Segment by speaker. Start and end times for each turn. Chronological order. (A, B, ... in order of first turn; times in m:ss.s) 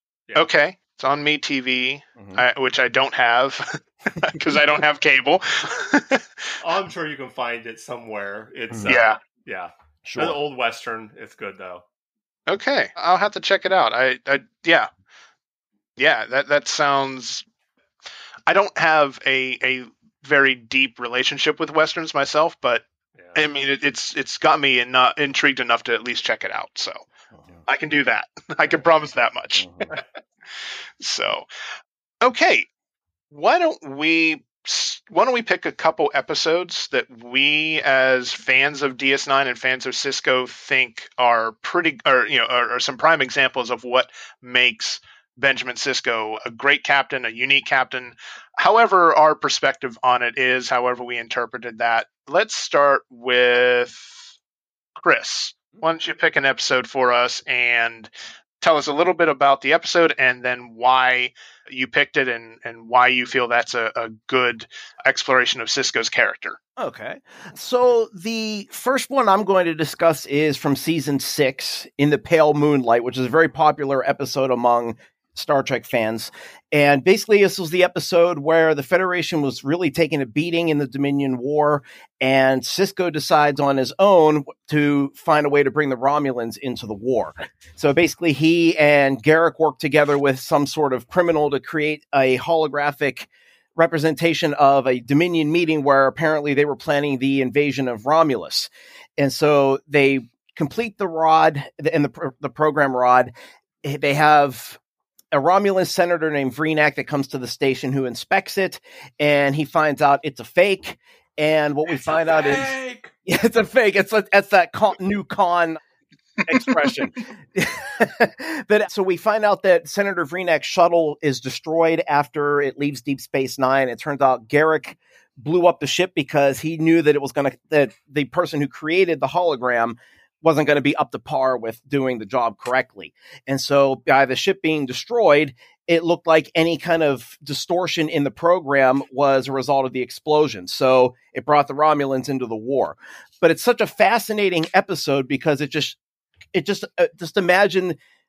0:00.3-0:03.6 A
0:02.2-0:02.4 B
0:04.2-0:06.2 A
0:06.6-0:11.8 C
0:08.7-0:09.0 B
0:08.9-0:09.2 A
0:10.0-0:10.4 B
0:12.5-0:14.9 A
0:16.0-0:17.4 A
0:18.5-0:22.8 A
0:23.2-0:23.4 C
0:23.3-0:27.0 A
0:27.3-0:27.6 B
0:27.7-0:30.0 A
0:29.6-0:29.8 B
0:31.0-0:31.4 A
0:32.2-0:32.7 A
0:33.3-0:54.2 A
0:55.0-1:06.6 A
1:06.8-1:44.8 B
1:45.3-1:55.8 B
1:52.0-1:53.1 C
1:56.5-2:26.0 B
2:26.5-2:28.0 B